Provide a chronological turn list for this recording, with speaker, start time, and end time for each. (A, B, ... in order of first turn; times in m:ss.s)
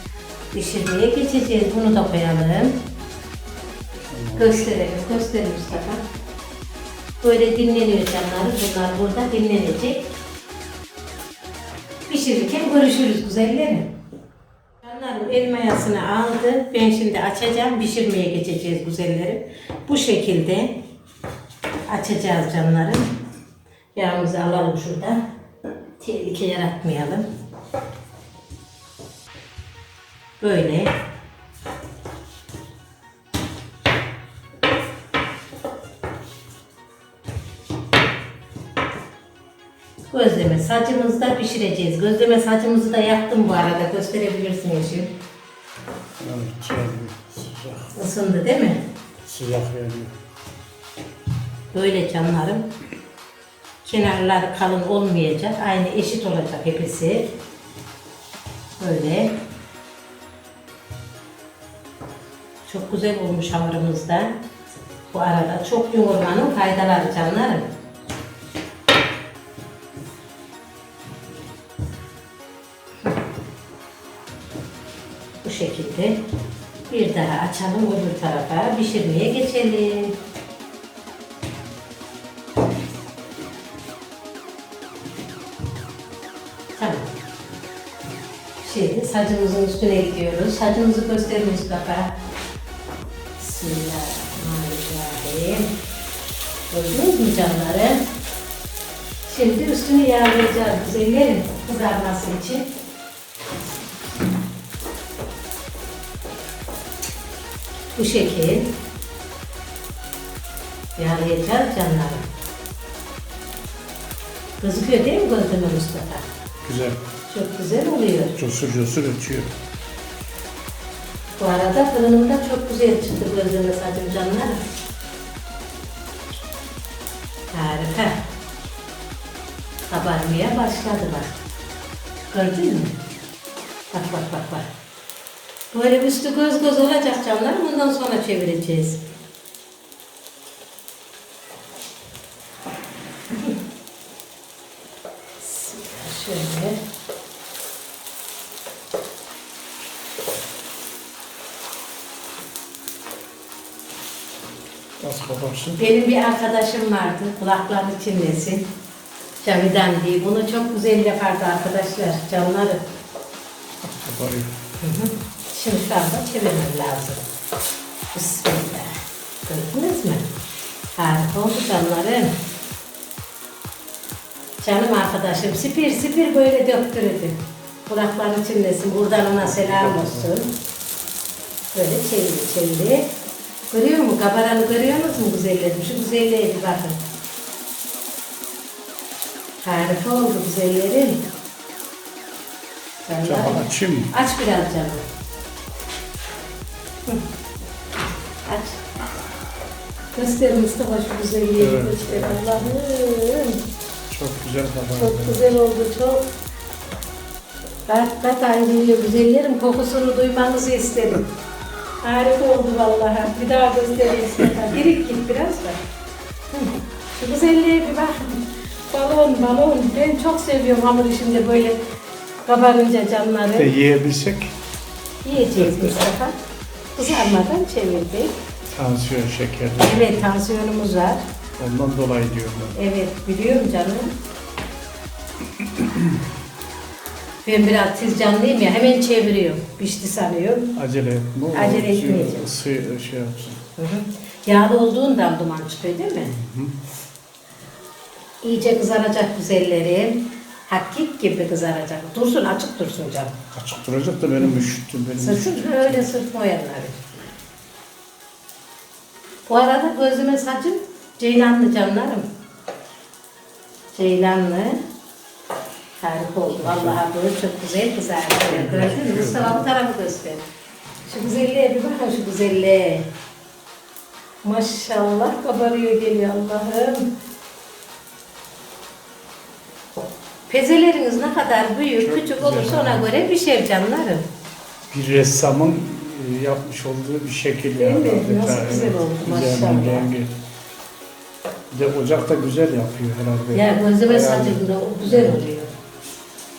0:00.5-0:02.8 A
0:04.1-0:04.7 B
0:04.4-0:06.0 A
0:07.2-0:10.1 A
0:12.1-0:13.9 A
0:14.8-0:20.8 A
0:21.9-0:23.1 A
0:24.0-0:25.2 A
0:26.0-0:27.3 A
0:30.4-0:31.0 A
0:40.1-0:45.2 A
0:46.2-0:47.9 B
0:47.9-0:48.8 A
0:49.2-0:50.1 B
0:51.7-0:52.7 A
0:53.8-0:57.3 A
0:58.8-0:59.4 A
1:02.7-1:04.4 A
1:05.1-1:07.6 A
1:15.4-1:16.3 A
1:16.9-1:20.2 A
1:26.8-1:27.1 A
1:28.6-1:32.2 A
1:33.4-1:35.7 A
1:36.7-1:38.0 A
1:39.3-1:42.7 A
1:48.0-1:48.7 A
1:51.0-1:52.3 A
1:54.6-1:56.2 A
1:56.6-1:57.0 B
1:57.3-1:58.4 A
1:58.4-1:59.5 B
2:01.4-2:04.6 A
2:07.5-2:08.2 A
2:09.9-2:11.4 A
2:12.3-2:13.0 A
2:13.9-2:14.7 A
2:15.7-2:19.0 A
2:25.4-2:26.8 A
2:35.0-2:35.8 B
2:35.8-2:38.7 A
2:39.4-2:42.8 A
2:43.8-2:44.6 B
2:44.8-2:47.3 A
2:48.1-2:50.3 A
2:51.0-2:52.4 A
2:54.6-3:00.5 A
2:59.4-3:00.4 B
3:01.7-3:03.1 A
3:03.7-3:07.0 A
3:09.6-3:11.3 A
3:13.0-3:15.0 A
3:13.2-3:14.1 B
3:18.5-3:18.8 A
3:20.1-3:23.6 A
3:21.6-3:22.8 B
3:24.1-3:25.6 B
3:25.0-3:26.3 A
3:27.9-3:31.3 A
3:32.0-3:35.8 A
3:36.5-3:41.8 A
3:42.5-3:43.7 A
3:43.6-3:44.6 B
3:45.2-3:46.4 A
3:45.6-3:46.0 B
3:47.0-3:48.4 A
3:47.1-3:47.3 B
3:48.7-3:50.3 B
3:49.8-3:51.2 A
3:51.6-3:52.8 B
3:52.8-3:54.2 A
3:55.6-3:56.2 B
3:57.4-4:00.8 A
4:00.8-4:03.6 B
4:01.5-4:02.5 A
4:03.8-4:06.4 A
4:06.3-4:06.8 B
4:08.4-4:13.4 A
4:13.5-4:16.1 B
4:15.2-4:17.3 A
4:19.5-4:22.3 A
4:23.9-4:24.8 A
4:26.0-4:30.5 A
4:26.6-4:27.0 B
4:28.4-4:29.7 B
4:31.1-4:33.1 A
4:34.4-4:37.1 A
4:40.5-4:44.3 A
4:42.0-4:43.0 B
4:44.9-4:50.4 B
4:47.8-4:50.1 A
4:51.7-4:55.4 B
4:53.5-4:55.7 A